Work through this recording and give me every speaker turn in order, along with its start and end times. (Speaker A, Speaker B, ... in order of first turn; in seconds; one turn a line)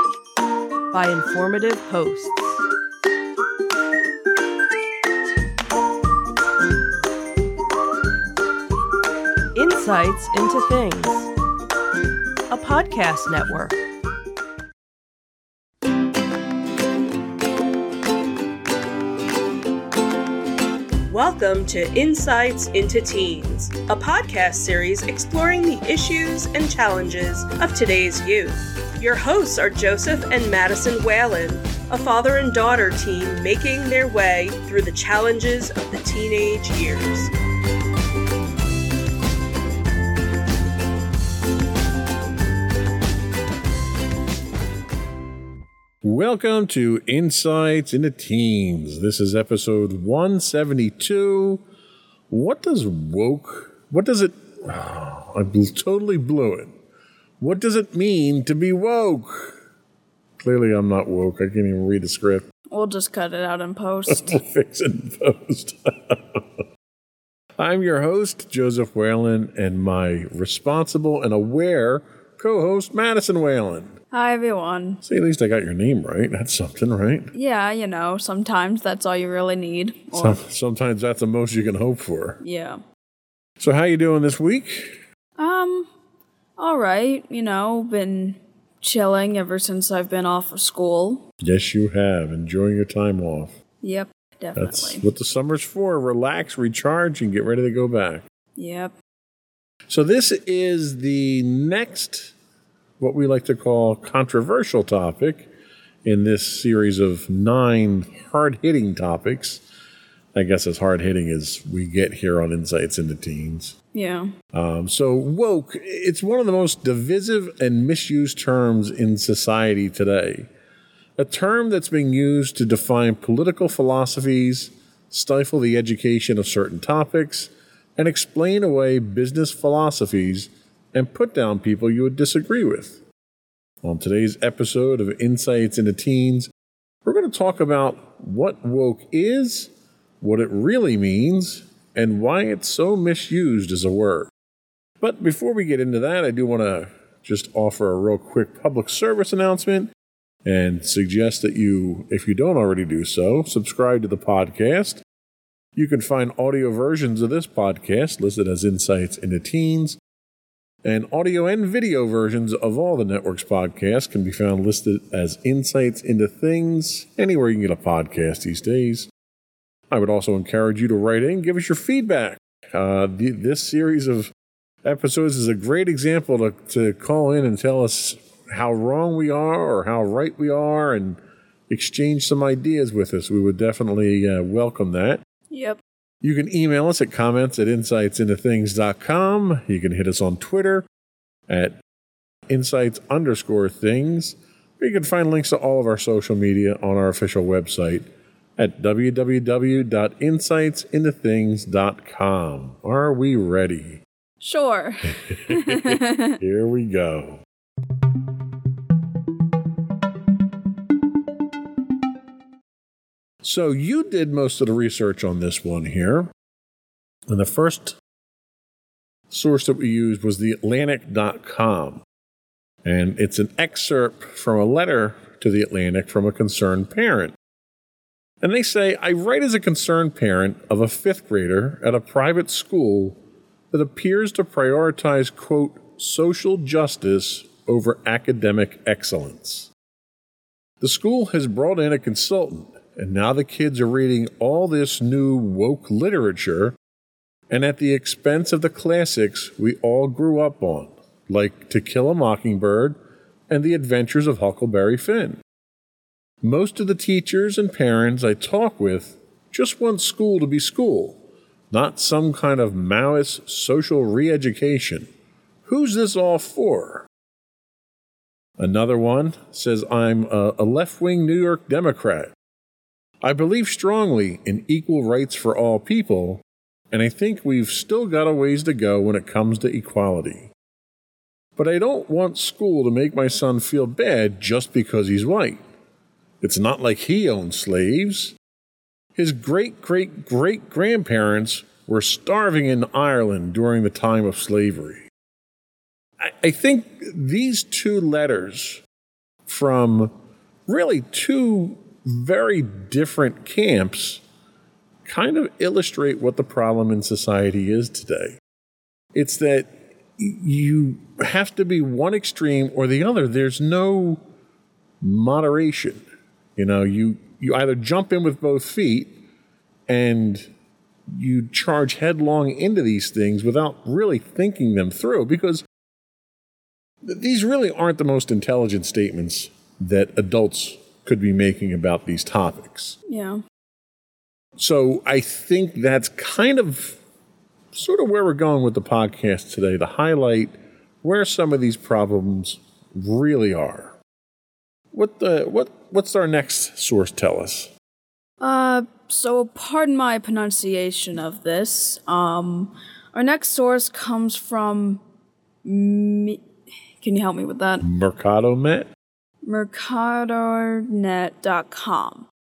Speaker A: 0.9-2.6
Speaker A: 9.6-11.3
Speaker A: 12.5-13.8
Speaker A: 21.1-37.3
Speaker B: 46.0-51.6
Speaker B: 52.3-56.7
Speaker B: 57.4-59.6
Speaker B: 60.4-62.5
Speaker C: 62.7-64.4
Speaker B: 64.1-66.6
Speaker B: 67.6-74.0
Speaker C: 74.1-75.0
Speaker B: 75.0-77.3
Speaker C: 77.3-80.4
Speaker B: 80.1-82.4
Speaker C: 82.4-82.8
Speaker B: 83.6-85.0
Speaker C: 85.4-85.9
Speaker C: 86.6-91.2
Speaker B: 91.4-93.6
Speaker C: 93.8-95.0
Speaker B: 94.6-98.2
Speaker C: 98.6-99.0
Speaker B: 99.9-102.3
Speaker B: 103.0-105.5
Speaker B: 106.0-109.6
Speaker B: 110.3-113.8
Speaker C: 113.9-114.3
Speaker B: 114.5-120.5
Speaker B: 121.2-133.0
Speaker B: 133.8-136.5
Speaker B: 137.0-144.3
Speaker B: 145.0-149.9
Speaker B: 150.4-155.0
Speaker B: 155.8-160.0
Speaker B: 160.8-169.1
Speaker B: 169.9-174.3
Speaker B: 174.8-185.2
Speaker C: 185.5-185.8
Speaker B: 186.2-190.8
Speaker B: 191.5-191.8
Speaker B: 192.5-204.0
Speaker C: 204.4-206.4
Speaker B: 205.2-207.4
Speaker B: 213.4-216.3
Speaker B: 217.3-218.0
Speaker B: 219.3-222.0
Speaker B: 222.8-227.3
Speaker B: 228.4-233.2
Speaker B: 233.7-239.7
Speaker B: 240.8-246.8
Speaker B: 247.5-253.0
Speaker B: 253.5-255.4
Speaker B: 256.4-265.1
Speaker B: 265.6-267.1
Speaker B: 268.6-272.3
Speaker B: 273.2-280.5
Speaker B: 281.6-285.6
Speaker B: 286.4-288.4
Speaker B: 289.2-295.1
Speaker B: 296.2-298.8
Speaker B: 299.5-300.1
Speaker B: 300.7-304.2
Speaker B: 305.1-308.4
Speaker B: 309.1-314.2
Speaker B: 315.0-316.0
Speaker B: 316.6-319.2
Speaker B: 319.9-320.5
Speaker B: 321.1-325.6
Speaker B: 327.0-333.0
Speaker C: 333.1-333.4
Speaker B: 334.6-337.0
Speaker B: 337.7-343.9
Speaker B: 344.9-347.7
Speaker C: 348.4-355.0
Speaker C: 355.6-356.4
Speaker C: 357.0-357.8
Speaker B: 357.8-358.9
Speaker C: 359.4-362.3